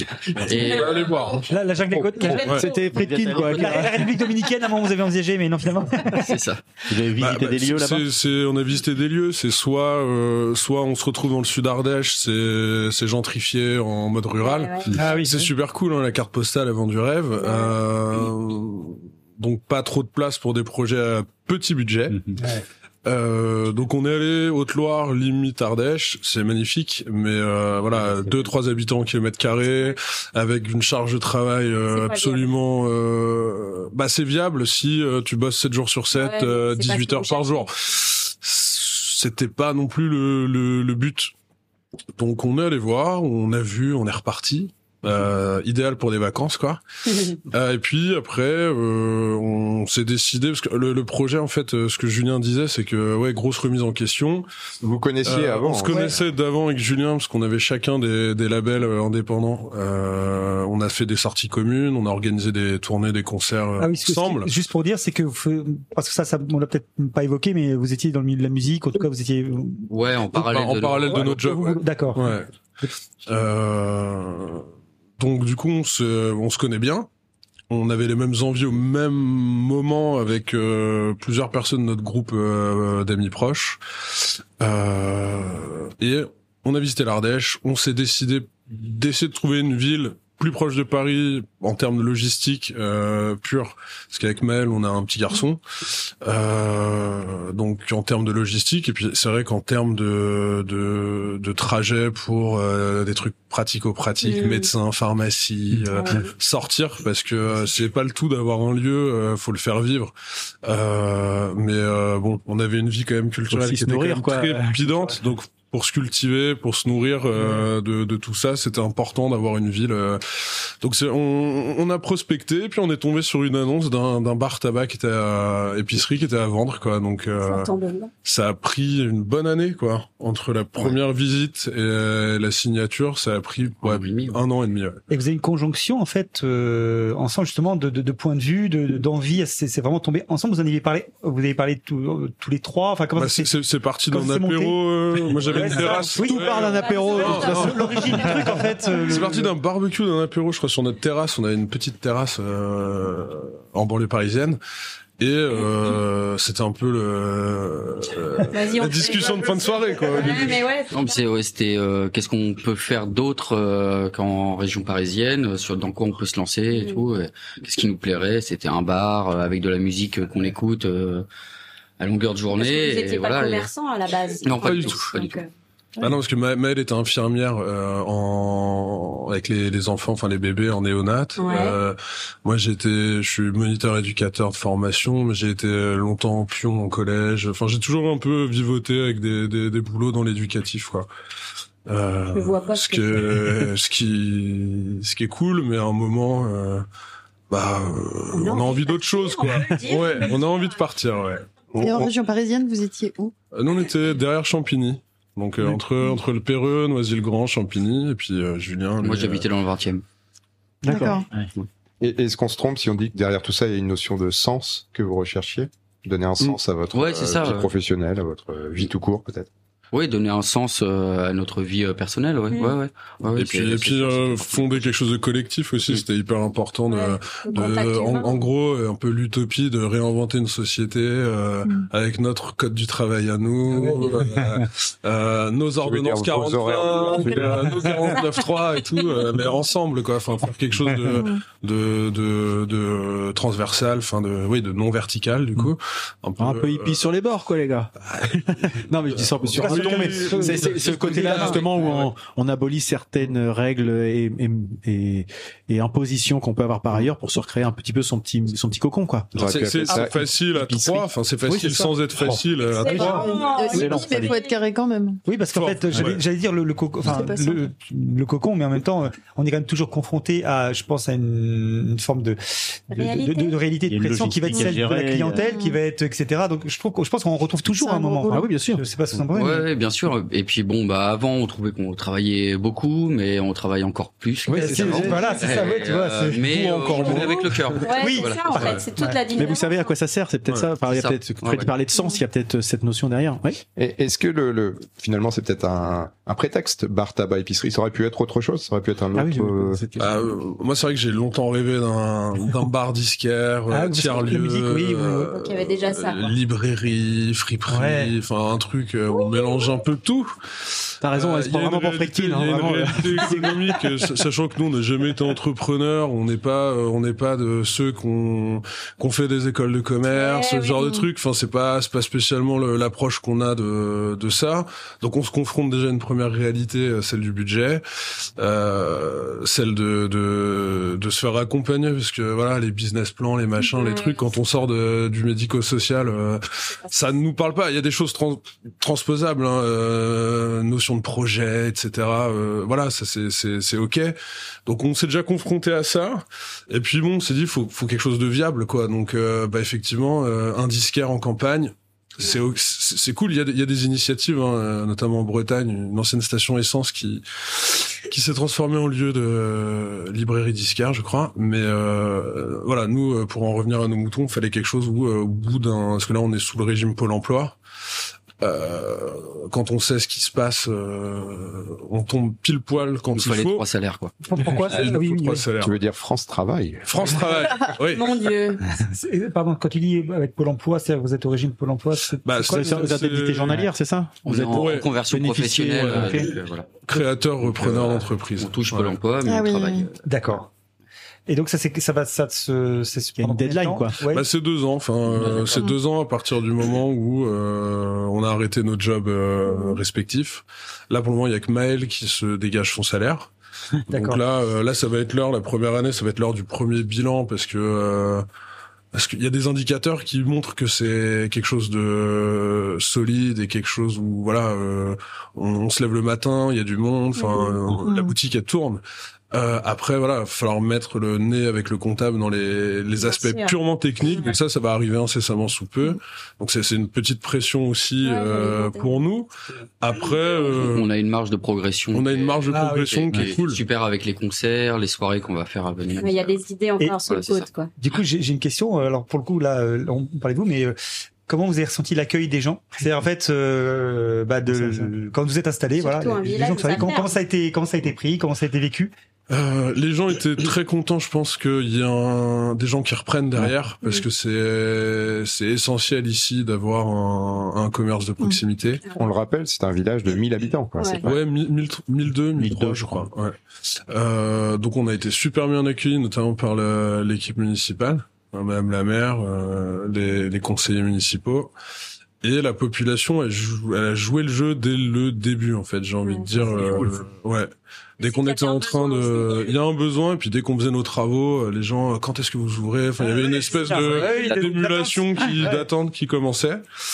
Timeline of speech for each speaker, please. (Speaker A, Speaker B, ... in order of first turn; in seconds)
Speaker A: 0.4-1.0, 3.3-3.8, 6.2-6.6, 69.9-71.4, 133.8-134.4, 160.9-171.3, 172.0-173.7, 174.4-175.4, 209.0-210.0, 216.9-217.7, 219.9-224.8, 279.3-288.8, 290.8-291.7, 373.1-374.1, 384.2-390.0, 395.1-395.8, 430.5-436.3, 437.0-437.5
Speaker B: 0.5-1.4, 2.2-3.0, 14.4-14.9, 17.4-18.3, 31.9-32.5, 36.1-37.7, 104.2-104.7, 105.9-106.3, 127.4-128.1, 146.3-149.1, 158.5-161.2, 166.7-167.0, 172.5-175.5, 181.3-181.8, 192.3-193.4, 198.3-200.8, 222.5-222.8, 226.9-228.5, 238.1-238.4, 262.6-264.6, 273.0-273.3, 287.0-287.3, 287.8-290.0, 305.3-306.3, 309.1-309.7, 320.1-321.1, 333.6-334.3, 377.8-378.6, 399.5-399.8, 417.1-417.6, 422.9-423.6, 424.1-424.3, 428.0-429.0, 430.0-430.5, 436.0-437.7, 445.8-447.2, 460.8-461.0, 476.0-476.8, 478.0-479.5, 483.0-484.3
Speaker C: 0.6-1.4, 7.2-22.3, 23.0-41.3, 42.2-46.8, 47.5-54.5, 55.2-64.5, 70.3-72.5, 73.3-74.7, 75.2-77.1, 77.7-95.6, 96.2-110.1, 110.6-127.7, 128.2-135.0, 143.1-154.6, 155.2-160.6, 174.5-175.1, 176.0-191.1, 191.9-196.8, 197.5-202.1, 203.5-209.5, 223.3-247.0, 248.0-252.1, 259.3-263.4, 265.5-266.2, 288.5-288.8, 300.0-310.3, 311.1-327.8, 328.4-367.6, 368.4-373.6, 374.5-375.8, 376.9-378.1, 382.2-383.6, 384.3-384.9, 385.8-386.3, 386.9-388.9, 394.1-403.3, 403.9-408.2, 408.9-430.9, 431.9-433.6, 449.3-458.8, 461.0-463.4, 463.9-471.5, 472.2-486.6
Speaker D: 1.5-2.5, 3.4-6.3, 14.9-15.5, 55.9-56.1, 63.8-69.9, 71.1-72.4, 135.1-143.5, 144.1-144.8, 145.4-146.4, 147.5-149.5, 233.8-234.5, 249.6-251.6, 262.9-263.4, 265.2-279.6, 284.6-289.2, 303.7-305.4, 307.7-308.1, 374.3-375.4, 378.8-383.0, 390.0-390.5, 391.3-394.2, 403.9-404.2, 432.5-433.2, 437.8-440.8, 441.3-448.9, 483.7-485.6
Speaker E: 2.0-3.9, 113.5-115.2, 146.2-148.6, 210.8-211.2, 246.4-259.3, 261.4-262.4, 263.7-264.3, 278.0-278.8, 284.4-285.4, 289.3-293.6, 299.1-300.2, 311.0-313.6, 382.5-386.3, 393.2-394.0, 444.5-444.9
Speaker F: 3.0-3.5, 6.9-8.1, 27.9-28.5, 273.9-275.5, 462.4-463.1
Speaker G: 54.8-56.0, 212.0-219.5, 235.8-237.9, 259.3-261.1, 293.8-299.8, 375.6-377.1, 458.9-461.2
Speaker H: 201.8-203.3, 210.9-211.3, 262.9-265.2, 274.5-275.8, 277.8-278.5, 389.2-389.9, 417.9-418.1